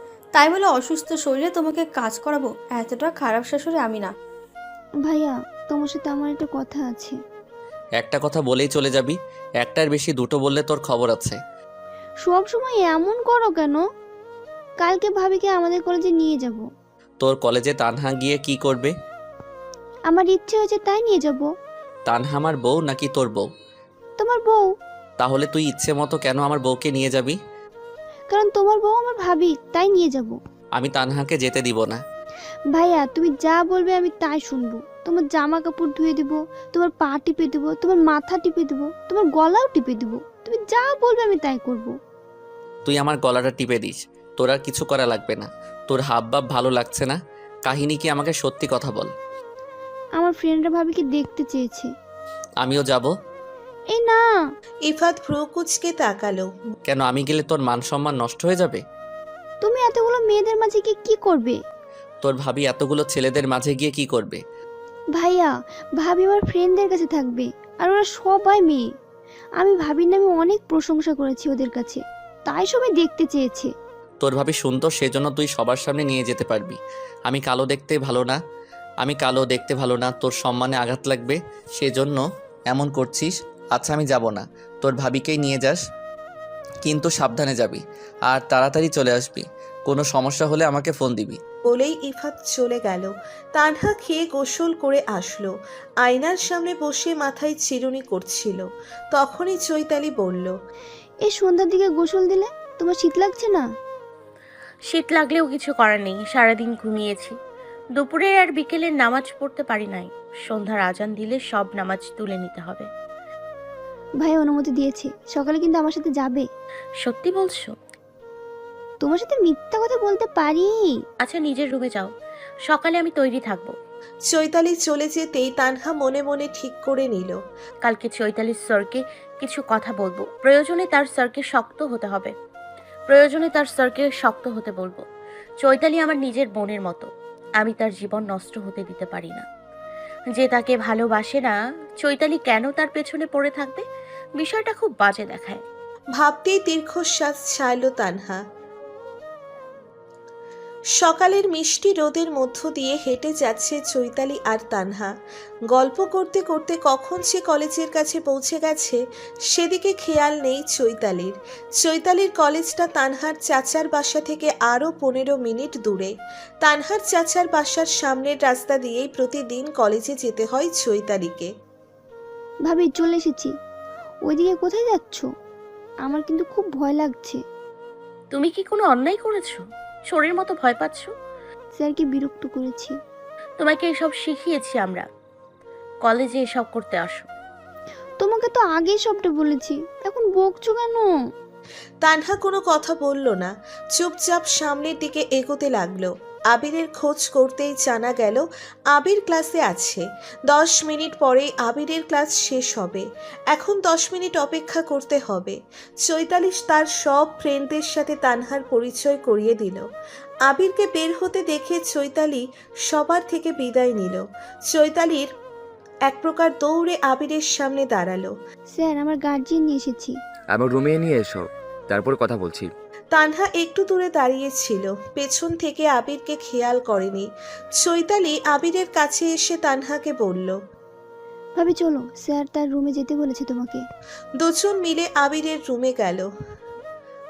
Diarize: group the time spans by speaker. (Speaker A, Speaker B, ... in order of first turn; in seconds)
Speaker A: 0.3-4.1
Speaker B: 5.1-7.2, 12.2-13.8, 14.8-16.6, 20.1-21.5, 24.2-24.6, 28.3-30.4, 32.7-42.0, 50.2-51.9, 53.9-54.3, 59.6-61.6, 65.2-68.8, 69.6-73.7, 101.3-103.6, 114.2-116.5, 119.0-121.0, 172.7-173.5, 174.3-175.3, 176.0-177.4, 181.8-182.9, 188.2-191.1, 218.8-220.1, 231.6-233.8
Speaker C: 8.0-11.4, 17.2-18.9, 22.1-23.5, 25.2-27.4, 30.8-32.0, 42.9-49.1, 52.6-53.1, 56.9-58.8, 62.2-64.4, 74.2-78.4, 79.0-85.8, 86.8-91.4
Speaker D: 54.9-56.5, 91.7-100.5, 124.3-127.4, 146.2-148.4, 151.0-155.1, 155.7-171.5, 192.0-209.8, 210.5-215.3, 216.1-218.3, 223.1-227.3, 227.8-230.6, 234.4-236.3
Speaker E: 104.9-107.3, 108.0-112.9, 117.0-117.7, 121.2-122.1, 122.7-123.7, 127.8-132.3, 133.1-135.0, 135.6-137.1, 137.6-139.5, 140.3-143.8, 144.4-145.6, 178.3-181.1, 183.6-185.1, 186.0-187.3
Speaker F: 220.5-222.7